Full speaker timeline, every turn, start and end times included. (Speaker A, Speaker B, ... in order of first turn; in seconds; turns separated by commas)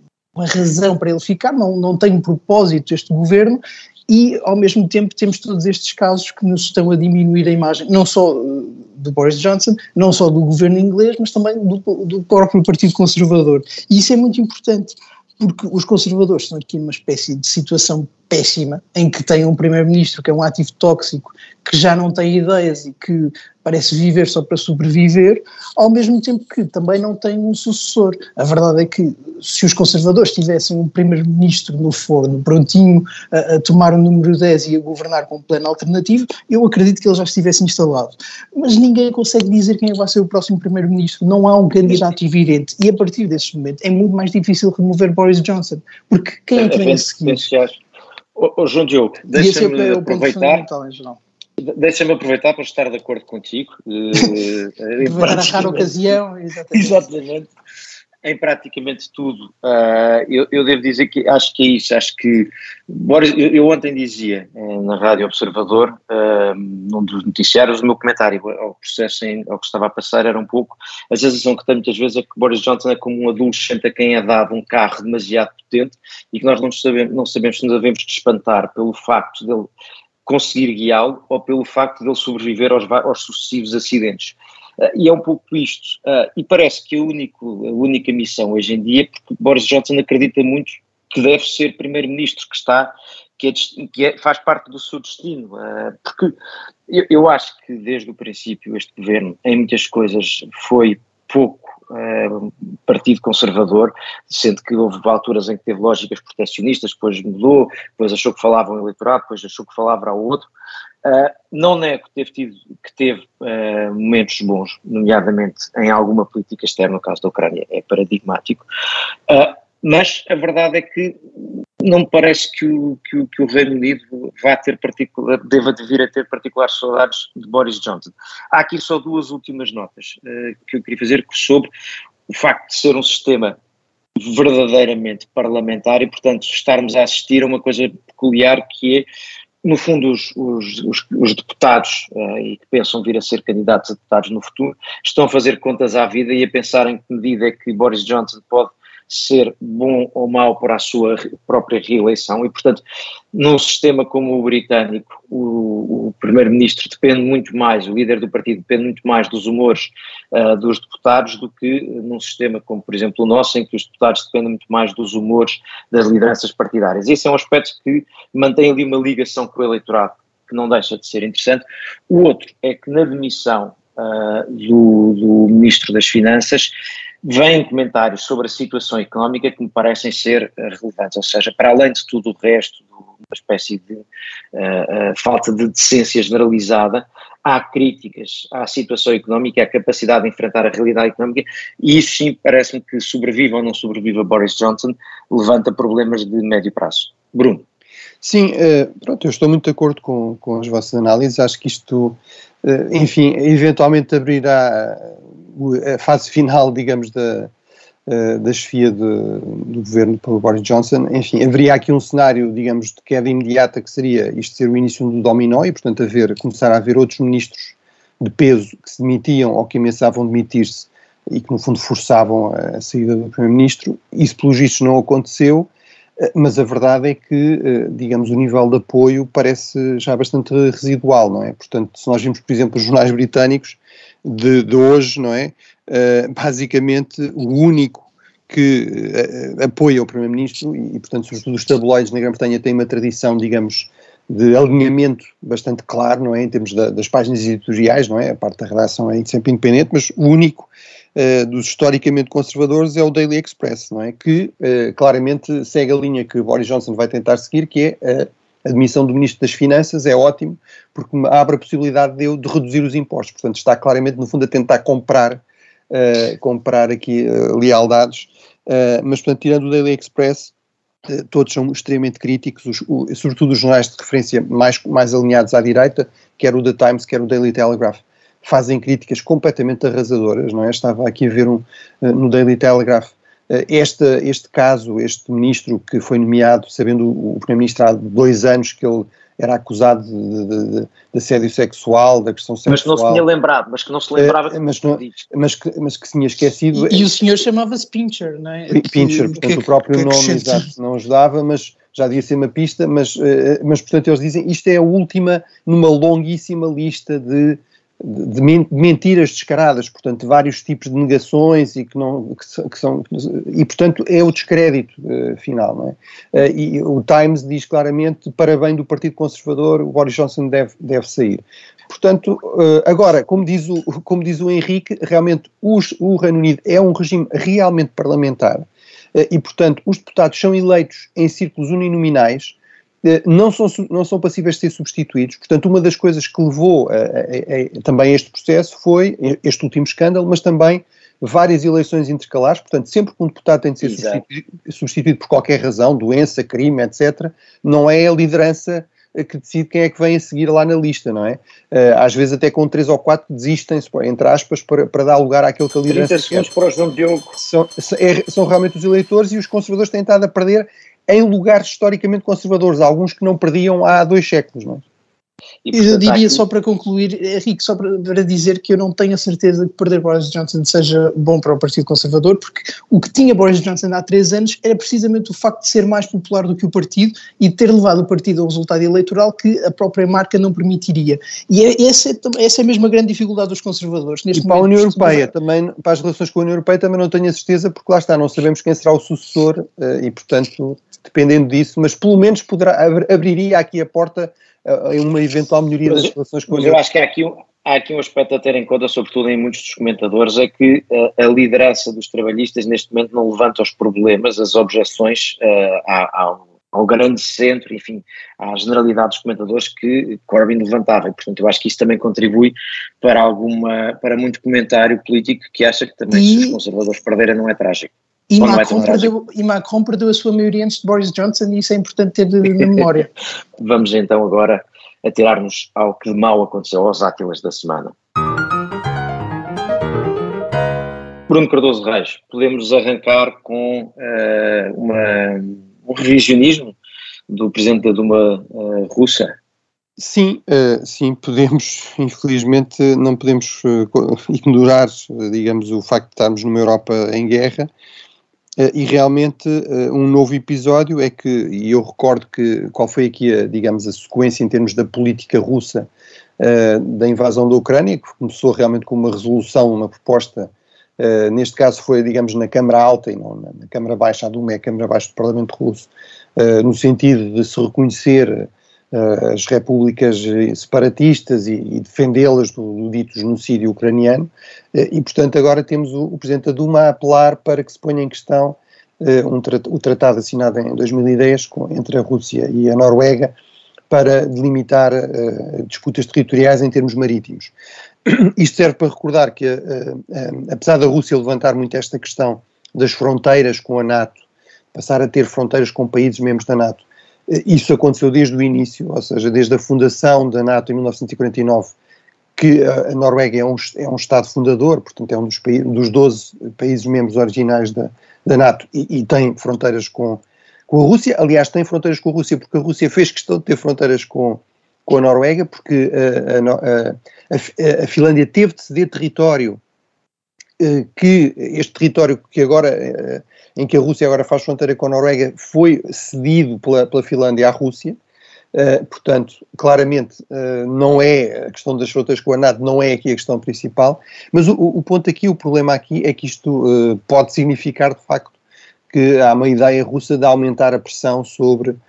Speaker A: 0.3-47.5, Speaker B: 46.6-47.8, Speaker B: 48.4-50.7, Speaker A: 49.3-51.2, Speaker B: 51.6-56.0, Speaker A: 55.0-57.0, Speaker B: 56.7-57.5, Speaker B: 58.2-79.7, Speaker B: 80.3-110.5, Speaker B: 111.0-118.7, Speaker B: 119.3-121.2, Speaker B: 121.8-131.7, Speaker B: 132.3-133.6, Speaker B: 134.2-139.1, Speaker B: 139.6-152.8, Speaker B: 153.3-176.7, Speaker B: 177.2-197.6, Speaker C: 198.2-207.5, Speaker C: 208.1-225.7, Speaker C: 226.2-270.5, Speaker C: 271.1-293.2, Speaker B: 292.7-295.2, Speaker C: 294.2-297.1, Speaker A: 296.7-300.7, Speaker C: 298.7-356.5, Speaker B: 343.8-344.2, Speaker B: 355.9-357.4, Speaker C: 357.4-364.8, Speaker B: 365.7-366.4, Speaker A: 365.7-385.3, Speaker C: 384.3-396.8, Speaker B: 395.9-419.1, Speaker A: 416.1-416.6, Speaker A: 418.3-423.1, Speaker B: 423.6-427.9, Speaker B: 431.3-436.8, Speaker B: 437.3-439.3, Speaker C: 440.0-447.7, Speaker C: 448.6-483.3, Speaker C: 483.9-487.5, Speaker C: 488.1-494.2, Speaker C: 494.7-501.7, Speaker C: 502.4-519.6, Speaker C: 520.6-528.0, Speaker C: 528.5-538.3, Speaker C: 538.9-541.8